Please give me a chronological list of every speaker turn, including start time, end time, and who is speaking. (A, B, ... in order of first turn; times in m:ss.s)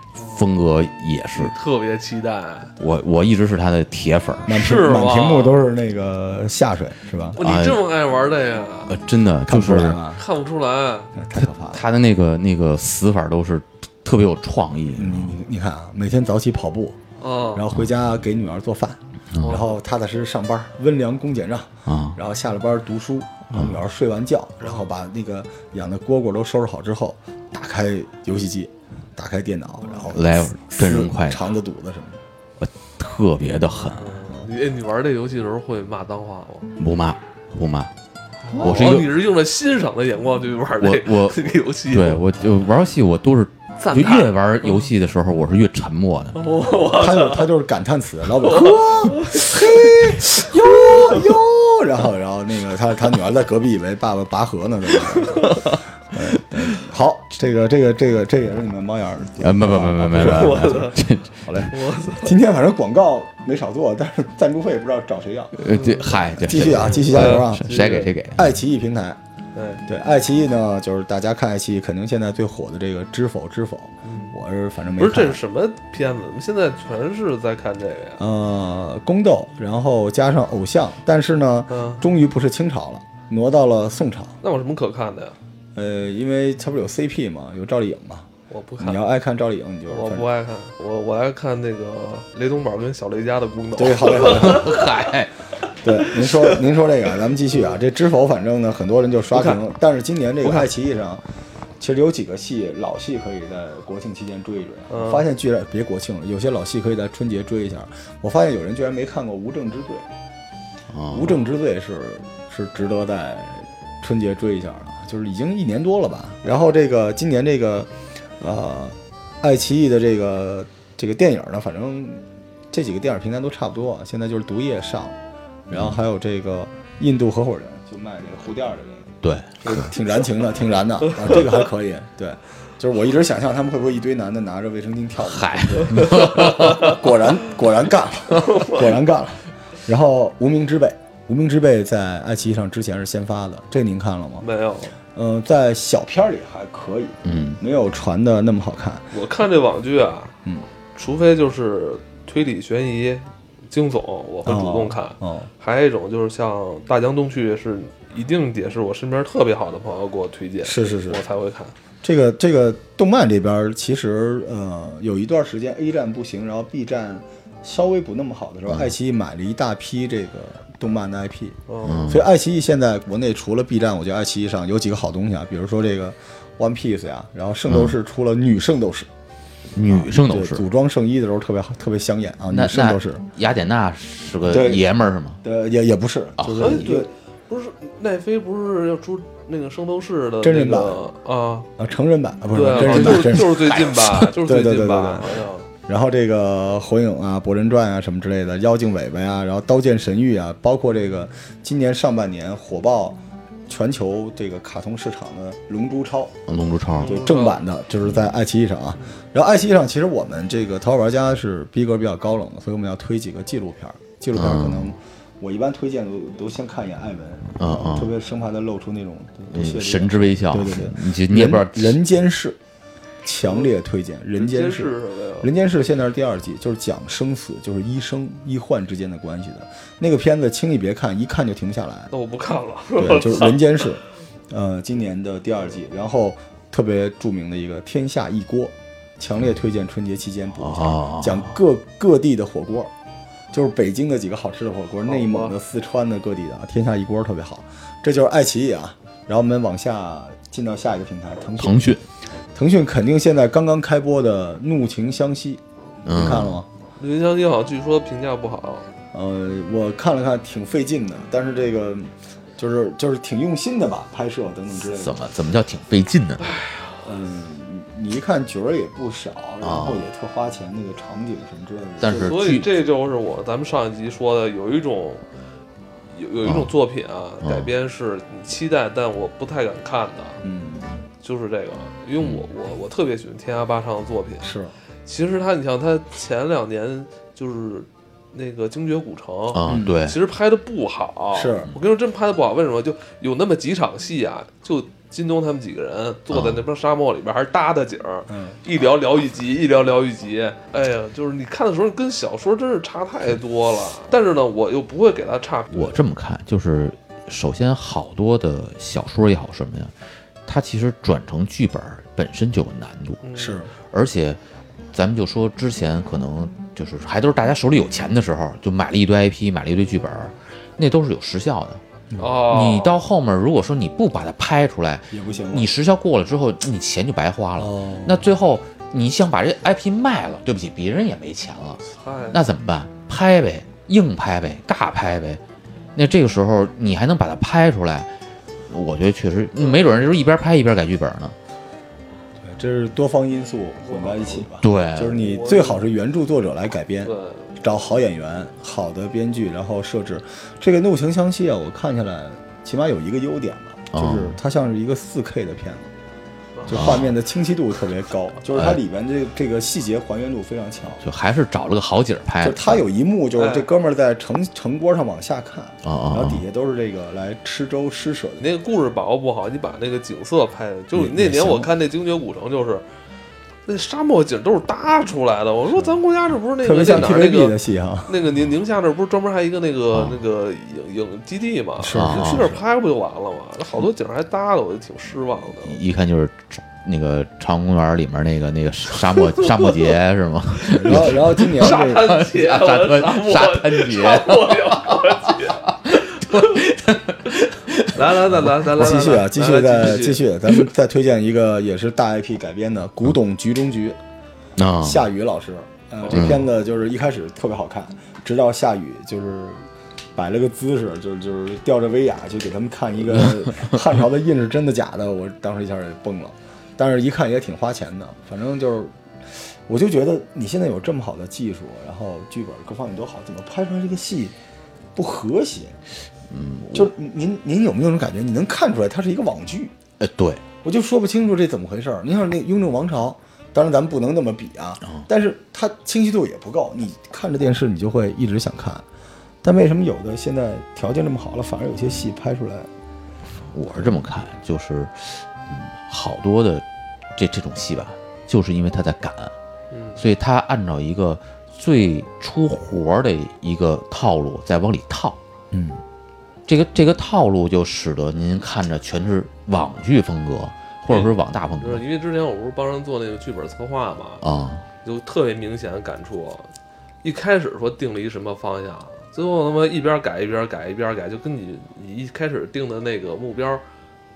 0:00.2-0:00.4 A
0:00.2-0:01.5 B
0:01.4-0:02.7 A
0:02.8-0:04.6 B
0:04.4-0:07.4 C
0:04.5-0:05.6 A
0:07.4-0:09.0 A
0:07.4-0:07.8 B
0:08.9-0:10.0 B
0:09.5-0:10.2 C
0:10.1-0:11.1 A
0:11.1-0:11.8 C
0:11.3-0:15.4 B
0:14.9-0:17.0 C
0:17.2-0:17.6 A
0:17.5-0:32.2 C
0:19.3-0:19.6 B
0:19.4-0:19.7 A
0:21.9-0:22.2 B
0:23.5-0:23.8 B
0:30.1-0:31.4 B
0:32.6-0:34.2 B
0:33.7-0:36.7 A
0:36.8-0:37.9 B
0:38.4-0:42.2 A
0:38.6-0:39.2 B
0:40.8-0:46.4 B
0:43.8-0:44.9 A
0:46.3-0:47.5 A
0:46.9-1:09.2 C
0:48.5-0:49.5 A
0:55.2-0:55.6 A
0:59.4-1:01.7 B
1:00.2-1:01.0 A
1:01.7-1:02.3 A
1:05.5-1:08.5 B
1:05.7-1:06.2 A
1:06.8-1:08.1 A
1:09.5-1:09.8 A
1:09.8-1:15.4 C
1:14.0-1:14.3 A
1:15.0-1:18.2 A
1:18.2-1:24.4 C
1:21.7-1:22.0 A
1:24.4-1:25.4 A
1:25.7-1:28.3 C
1:28.5-1:29.0 A
1:28.8-1:30.3 C
1:29.9-1:35.0 A
1:33.7-1:34.8 C
1:34.3-1:35.3 B
1:35.8-1:41.2 C
1:37.5-1:37.8 A
1:39.3-1:39.6 A
1:41.8-1:50.1 C
1:44.9-1:45.2 A
1:50.9-1:51.4 B
1:51.1-2:05.2 C
2:05.7-2:24.5 C
2:05.7-2:06.0 B
2:09.2-2:09.9 B
2:15.2-2:16.9 B
2:16.0-2:16.9 A
2:18.4-2:18.8 A
2:24.4-2:25.0 A
2:25.1-2:29.1 C
2:27.2-2:27.6 B
2:29.1-2:30.3 A
2:30.9-2:41.7 A
2:34.4-2:35.5 C
2:40.6-2:41.2 C
2:42.0-2:59.1 C
2:51.7-2:52.1 A
2:51.8-2:52.3 B
2:57.7-2:57.9 B
2:59.7-3:00.6 B
2:59.8-3:03.2 C
3:02.5-3:05.4 B
3:04.4-3:04.9 C
3:05.4-3:07.1 C
3:06.4-3:07.0 B
3:06.6-3:11.7 A
3:10.4-3:11.0 C
3:11.8-3:26.4 C
3:12.5-3:15.6 A
3:12.7-3:14.3 B
3:26.5-3:27.2 B
3:27.0-3:27.6 A
3:27.0-3:42.6 C
3:28.0-3:28.3 B
3:34.3-3:34.9 B
3:37.6-3:38.1 B
3:39.5-3:42.0 B
3:43.2-3:52.1 C
3:43.4-3:43.7 A
3:44.4-3:45.5 A
3:52.1-3:53.8 A
3:53.0-4:02.9 C
4:00.6-4:01.5 B
4:03.5-4:12.0 C
4:05.0-4:05.5 A
4:11.6-4:12.0 B
4:12.5-4:16.7 C
4:16.0-4:16.6 B
4:17.0-4:18.9 A
4:19.1-4:25.2 C
4:24.9-4:26.6 B
4:26.4-4:27.0 A
4:27.0-4:32.4 C
4:29.6-4:30.0 B
4:32.0-4:32.7 B
4:32.1-4:35.2 A
4:36.1-4:40.4 A
4:36.4-4:36.7 B
4:37.4-4:37.7 B
4:40.4-4:40.9 C
4:41.2-4:44.5 A
4:44.4-4:44.7 C
4:45.0-5:06.0 A
4:49.5-4:50.2 B
4:49.6-4:50.0 C
4:51.3-4:51.7 C
4:56.3-4:56.6 B
4:58.3-4:58.6 C
5:05.7-5:09.9 B
5:10.4-5:13.2 B
5:13.2-5:13.6 A
5:13.4-5:13.7 C
5:13.9-5:14.4 B
5:14.9-5:21.8 B
5:22.2-5:23.0 A
5:22.4-5:35.4 B
5:25.1-5:25.7 C
5:27.6-5:28.3 C
5:32.0-5:32.4 A
5:35.9-5:38.1 B
5:38.7-5:41.3 B
5:39.6-5:40.1 A
5:42.4-5:55.9 C
5:43.8-5:44.4 A
5:44.6-5:45.2 B
5:45.2-5:45.8 A
5:47.0-5:47.5 A
5:53.9-5:54.4 B
5:56.6-5:57.0 A
5:56.7-6:01.0 C
5:56.7-5:57.1 B
5:58.5-5:58.8 B
6:01.0-6:02.8 B
6:02.4-6:08.5 C
6:03.4-6:03.7 A
6:05.8-6:06.4 B
6:08.4-6:12.8 A
6:11.0-6:11.7 C
6:13.6-6:17.6 A
6:16.6-6:18.1 C
6:18.1-6:25.8 A
6:19.9-6:20.2 B
6:21.8-6:22.6 C
6:21.9-6:22.5 B
6:25.6-6:38.2 B
6:29.1-6:30.0 A
6:30.7-6:32.2 C
6:31.6-6:36.7 A
6:37.8-6:40.2 A
6:38.6-6:44.0 C
6:44.6-6:45.0 B
6:44.8-7:04.3 C
6:46.0-6:46.4 A
6:46.1-6:46.4 B
7:04.9-7:05.8 C
7:06.3-7:06.9 B
7:06.7-7:09.7 C
7:10.0-7:10.4 B
7:10.6-7:18.8 C
7:19.4-7:22.7 C
7:23.5-7:26.6 B
7:27.2-7:29.3 B
7:29.7-7:30.0 A
7:30.0-7:35.2 B
7:35.5-7:35.8 C
7:36.5-7:41.8 B
7:40.9-7:44.2 A
7:44.2-7:44.6 B
7:44.8-7:46.5 A
7:47.0-7:53.6 A